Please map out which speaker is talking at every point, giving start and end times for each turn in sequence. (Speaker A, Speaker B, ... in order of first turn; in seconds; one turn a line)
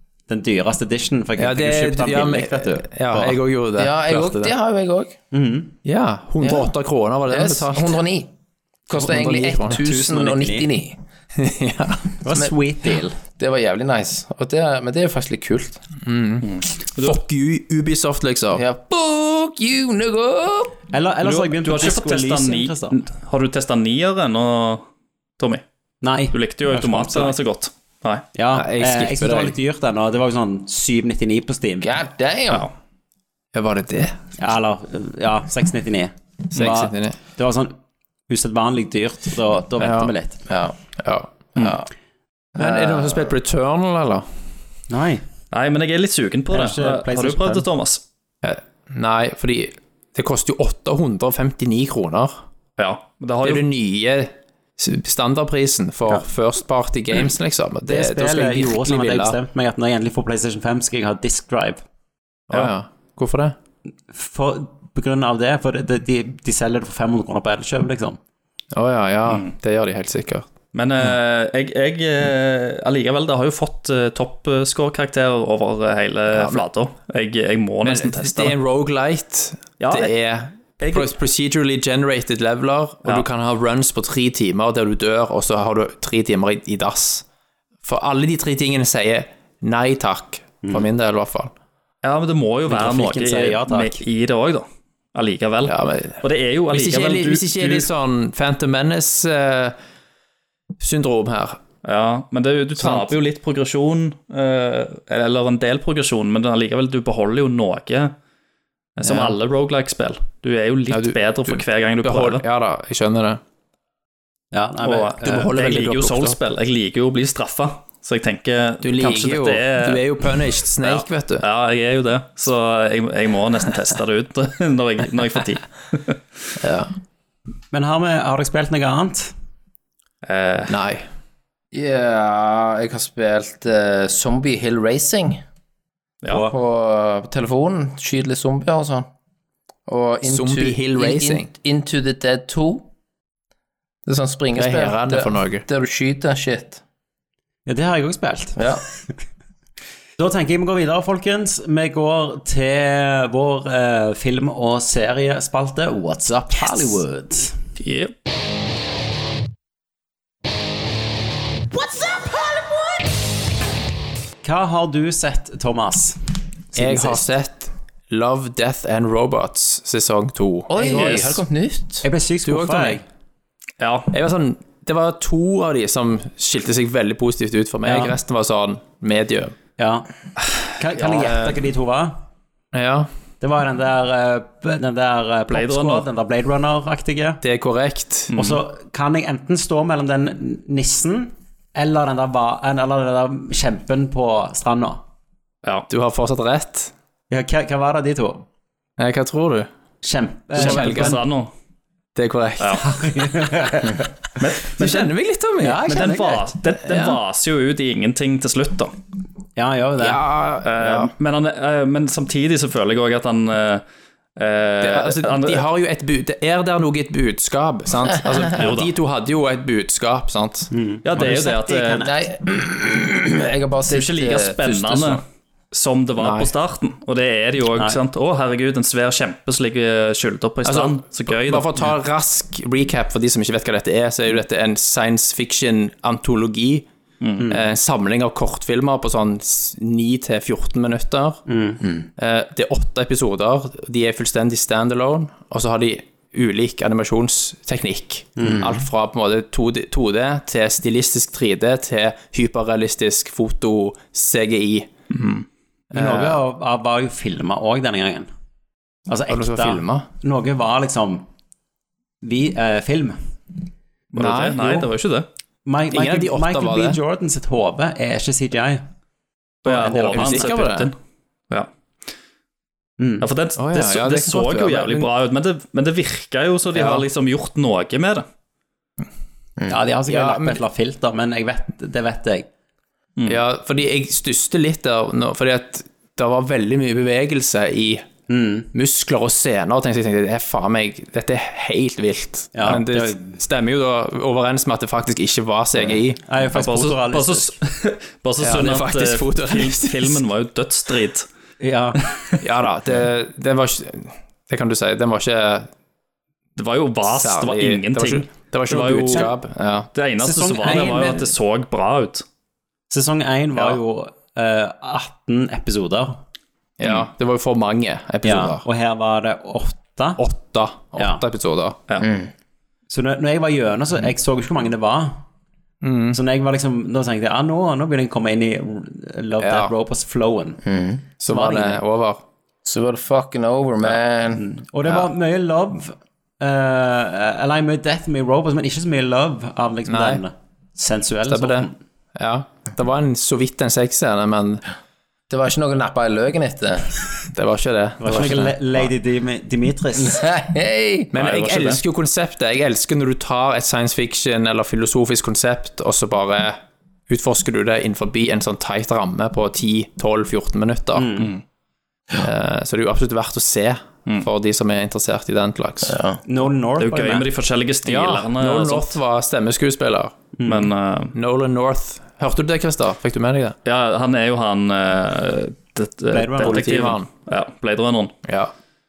Speaker A: 0.3-3.4
Speaker B: 1.4-4.5
Speaker C: 3.8-5.2
Speaker A: 5.3-5.7
Speaker B: 5.8-8.0
Speaker C: 6.4-6.7
Speaker C: 7.3-8.3
Speaker C: 8.9-10.9
Speaker B: 8.9-9.8
Speaker A: 9.7-10.7
Speaker B: 11.3-12.2
Speaker A: 12.2-13.2
Speaker C: 13.4-15.8
Speaker B: 16.0-18.6
Speaker D: 16.4-17.2
Speaker C: 18.5-20.7
Speaker A: 20.9-23.0
Speaker D: 21.2-24.9
Speaker D: 25.4-25.6
Speaker A: 26.0-27.4
Speaker D: 26.3-28.2
Speaker A: 28.3-31.9
Speaker B: 28.5-29.5
Speaker C: 31.8-32.7
Speaker B: 33.5-34.2
Speaker A: 34.4-37.8
Speaker B: 36.5-37.2
Speaker A: 38.3-40.4
Speaker B: 39.8-40.1
Speaker C: 40.5-40.7
Speaker B: 41.0-41.3
Speaker C: 41.5-41.9
Speaker C: 42.5-43.3
Speaker B: 42.5-44.2
Speaker A: 44.9-45.2
Speaker D: 45.5-48.0
Speaker A: 46.5-47.6
Speaker B: 48.4-52.4
Speaker D: 52.8-53.6
Speaker B: 53.4-59.4
Speaker A: 57.9-61.8
Speaker B: 62.5-63.5
Speaker A: 64.1-68.2
Speaker B: 68.7-70.5
Speaker D: 70.7-78.5
Speaker B: 76.3-76.6
Speaker B: 77.8-87.2
Speaker D: 79.8-80.1
Speaker D: 80.8-81.1
Speaker B: 87.8-91.5
Speaker D: 92.0-97.9
Speaker A: 92.7-94.0
Speaker B: 95.6-99.8
Speaker B: 100.8-101.6
Speaker D: 101.8-108.1
Speaker B: 102.8-103.1
Speaker D: 109.0-112.4
Speaker B: 109.0-109.3
Speaker B: 110.9-113.4
Speaker A: 114.5-115.5
Speaker D: 114.8-120.2
Speaker B: 115.2-116.4
Speaker B: 118.8-121.5
Speaker D: 120.8-126.2
Speaker B: 126.6-126.9
Speaker A: 127.7-129.3
Speaker D: 130.2-130.8
Speaker B: 130.7-131.1
Speaker C: 131.7-135.4
Speaker D: 136.2-136.5
Speaker C: 136.3-139.1
Speaker C: 139.9-142.8
Speaker B: 140.2-141.5
Speaker C: 144.1-146.8
Speaker B: 144.5-145.6
Speaker A: 147.7-148.6
Speaker C: 148.6-148.8
Speaker A: 150.2-157.6
Speaker D: 157.8-158.1
Speaker A: 164.4-166.2
Speaker A: 166.7-167.2
Speaker B: 166.7-171.2
Speaker C: 170.7-172.0
Speaker A: 170.8-171.2
Speaker D: 170.8-171.4
Speaker A: 172.0-173.0
Speaker B: 172.4-173.0
Speaker D: 173.8-174.1
Speaker B: 174.1-179.5
Speaker A: 177.8-178.1
Speaker A: 179.8-180.1
Speaker A: 180.8-182.2
Speaker D: 181.0-181.3
Speaker B: 181.2-181.6
Speaker B: 182.7-183.1
Speaker A: 183.4-187.4
Speaker D: 185.5-186.1
Speaker B: 187.4-188.3
Speaker A: 188.3-195.0
Speaker B: 195.9-196.9
Speaker A: 197.3-198.4
Speaker B: 199.0-199.7
Speaker A: 200.0-201.2
Speaker B: 200.5-201.2
Speaker D: 200.6-201.5
Speaker B: 202.1-202.8
Speaker A: 202.8-204.0
Speaker D: 204.4-205.1
Speaker B: 204.7-206.1
Speaker A: 205.6-206.6
Speaker D: 205.9-208.9
Speaker B: 206.8-207.2
Speaker A: 209.6-210.2
Speaker B: 210.0-211.1
Speaker D: 210.6-213.8
Speaker D: 214.4-215.6
Speaker B: 214.8-220.7
Speaker D: 218.5-218.9
Speaker A: 220.7-222.1
Speaker D: 221.0-222.1
Speaker C: 222.0-225.2
Speaker D: 223.9-231.7
Speaker B: 226.2-226.5
Speaker B: 230.6-236.8
Speaker D: 237.2-237.4
Speaker B: 237.5-241.4
Speaker A: 241.5-241.8
Speaker B: 242.2-254.9
Speaker A: 248.4-248.8
Speaker A: 255.9-258.3
Speaker B: 255.9-256.4
Speaker A: 259.1-261.2
Speaker B: 259.3-260.0
Speaker A: 262.2-263.2
Speaker D: 264.1-265.3
Speaker B: 264.1-264.9
Speaker A: 265.6-268.9
Speaker B: 265.9-267.0
Speaker D: 269.6-270.9
Speaker A: 269.6-270.6
Speaker B: 270.1-270.9
Speaker A: 273.0-273.3
Speaker D: 273.2-278.2
Speaker B: 273.6-275.1
Speaker B: 276.7-277.0
Speaker A: 279.6-282.5
Speaker B: 280.1-280.6
Speaker B: 283.3-288.1
Speaker A: 288.3-288.7
Speaker B: 288.7-296.2
Speaker A: 292.5-293.4
Speaker A: 295.8-297.5
Speaker D: 296.5-301.3
Speaker B: 298.4-300.2
Speaker A: 301.6-302.0
Speaker B: 302.4-305.7
Speaker D: 306.6-309.3
Speaker B: 307.1-309.9
Speaker D: 309.9-312.2
Speaker A: 310.2-311.3
Speaker B: 310.6-311.0
Speaker A: 312.9-316.2
Speaker B: 316.8-318.6
Speaker A: 318.2-320.2
Speaker B: 320.2-321.8
Speaker A: 321.0-321.2
Speaker C: 322.0-322.3
Speaker A: 322.9-325.2
Speaker B: 325.8-326.2
Speaker A: 326.1-330.6
Speaker B: 329.4-329.7
Speaker C: 330.6-331.0
Speaker B: 331.2-332.2
Speaker A: 331.3-331.8
Speaker C: 332.6-334.5
Speaker A: 334.4-341.7
Speaker B: 339.9-340.2
Speaker B: 341.3-344.6
Speaker C: 345.3-346.9
Speaker B: 347.3-348.9
Speaker A: 348.0-350.2
Speaker C: 350.0-351.1
Speaker B: 351.1-361.3
Speaker D: 351.1-351.8
Speaker A: 360.9-361.3
Speaker B: 362.2-366.0
Speaker C: 365.9-366.2
Speaker A: 366.2-367.3
Speaker D: 366.8-368.9
Speaker B: 367.8-370.1
Speaker A: 370.4-370.7
Speaker D: 370.5-371.1
Speaker B: 371.1-373.6
Speaker D: 373.6-378.1
Speaker A: 376.1-376.8
Speaker B: 376.4-377.1
Speaker B: 378.2-378.5